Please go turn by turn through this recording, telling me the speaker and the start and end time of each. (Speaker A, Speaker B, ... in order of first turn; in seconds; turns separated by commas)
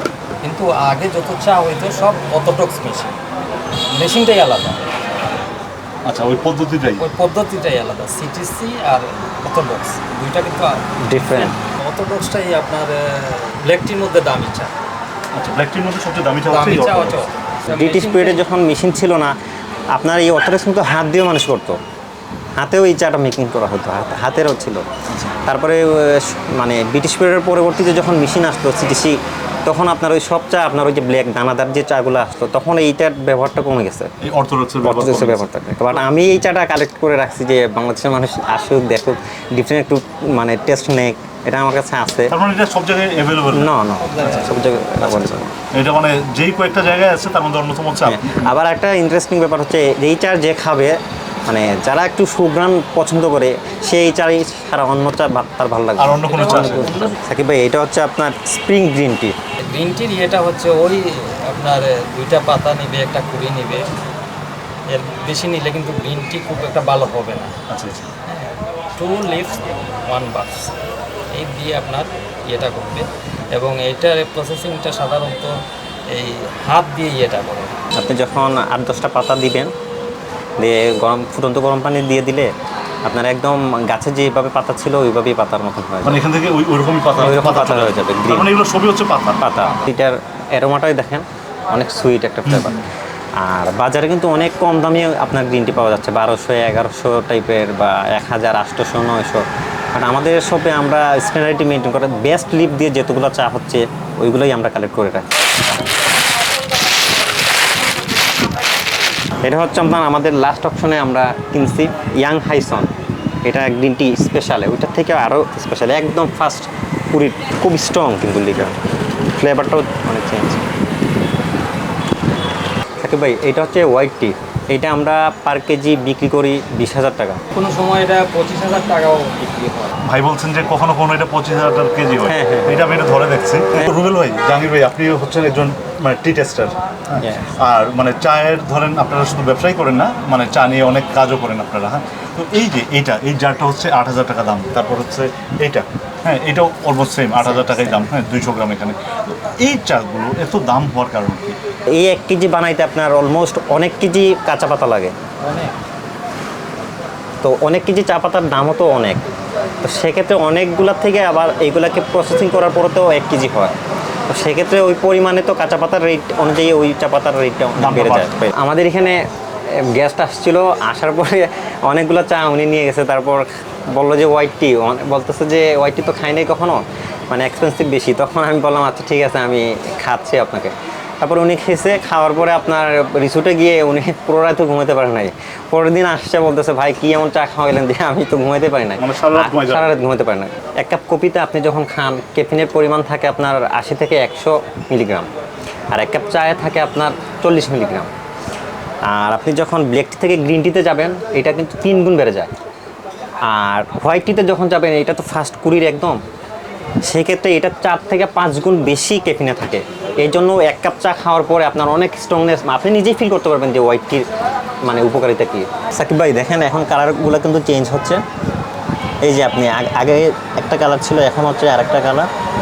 Speaker A: 0.4-3.2, Speaker A: 3.9-4.9, Speaker B: 6.0-7.0, Speaker A: 7.0-14.7, Speaker C: 11.0-11.6, Speaker B: 15.3-17.3, Speaker A: 16.5-18.4, Speaker C: 17.7-19.4, Speaker C: 19.9-21.8, Speaker C: 22.6-24.9, Speaker B: 25.1-25.4, Speaker C: 25.4-34.1, Speaker B: 34.2-35.5, Speaker C: 34.8-42.4, Speaker B: 42.3-48.5, Speaker C: 43.5-45.5, Speaker A: 44.0-44.6, Speaker C: 48.1-59.4, Speaker B: 56.0-56.9, Speaker A: 56.2-57.2, Speaker A: 59.6-63.9, Speaker A: 64.9-67.5, Speaker B: 67.7-68.1, Speaker A: 68.3-70.7, Speaker A: 71.3-77.7, Speaker C: 77.9-79.7, Speaker C: 80.6-82.5, Speaker C: 83.1-86.2, Speaker B: 86.0-89.5, Speaker C: 87.2-88.5, Speaker C: 89.4-92.8, Speaker B: 92.5-92.8, Speaker C: 93.4-105.5, Speaker C: 109.4-112.9, Speaker C: 113.5-118.8, Speaker C: 119.3-120.7, Speaker C: 123.0-127.4, Speaker A: 127.5-130.0, Speaker B: 130.0-151.6, Speaker C: 132.3-132.9, Speaker C: 137.2-137.5, Speaker C: 147.4-148.1, Speaker C: 151.9-155.2, Speaker A: 155.4-155.7, Speaker C: 157.4-159.2, Speaker C: 159.8-163.8, Speaker C: 164.3-195.3, Speaker B: 167.8-168.4, Speaker B: 189.0-189.9, Speaker C: 195.9-198.1, Speaker C: 199.1-202.5, Speaker C: 203.4-206.2, Speaker C: 207.0-214.3, Speaker C: 214.8-218.2, Speaker C: 219.2-222.3